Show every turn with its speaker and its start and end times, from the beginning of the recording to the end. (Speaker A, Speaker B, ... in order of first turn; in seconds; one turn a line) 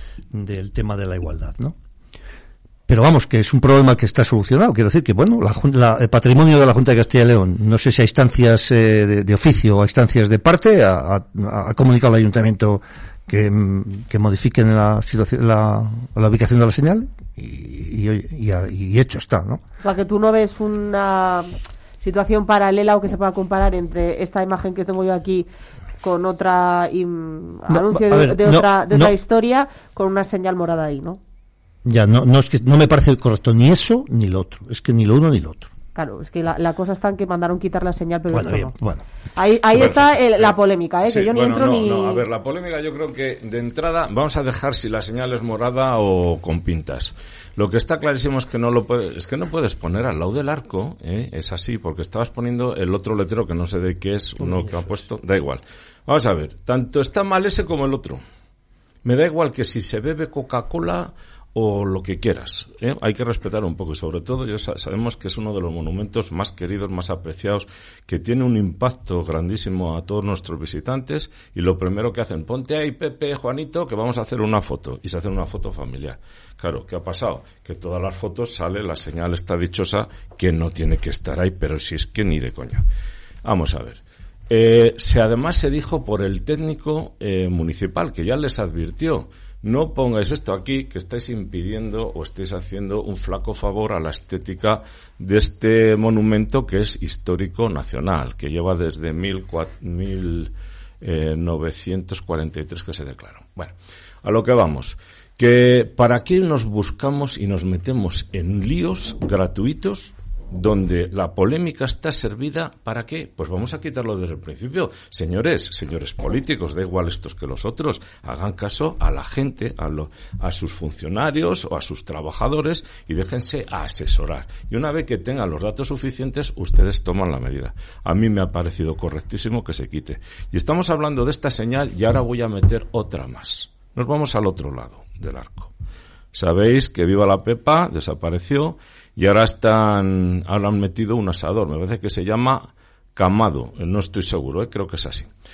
Speaker A: 0.3-1.8
Speaker A: 2.9-19.6
Speaker B: 19.8-25.5
Speaker B: 26.0-31.2
Speaker A: 27.7-29.1
Speaker A: 31.8-35.7
Speaker B: 35.9-38.7
Speaker A: 38.3-39.0
Speaker B: 39.4-42.2
Speaker C: 39.7-40.5
Speaker C: 41.0-58.2
Speaker A: 54.4-54.9
Speaker C: 59.0-82.8
Speaker C: 83.4-135.7
Speaker C: 136.3-145.3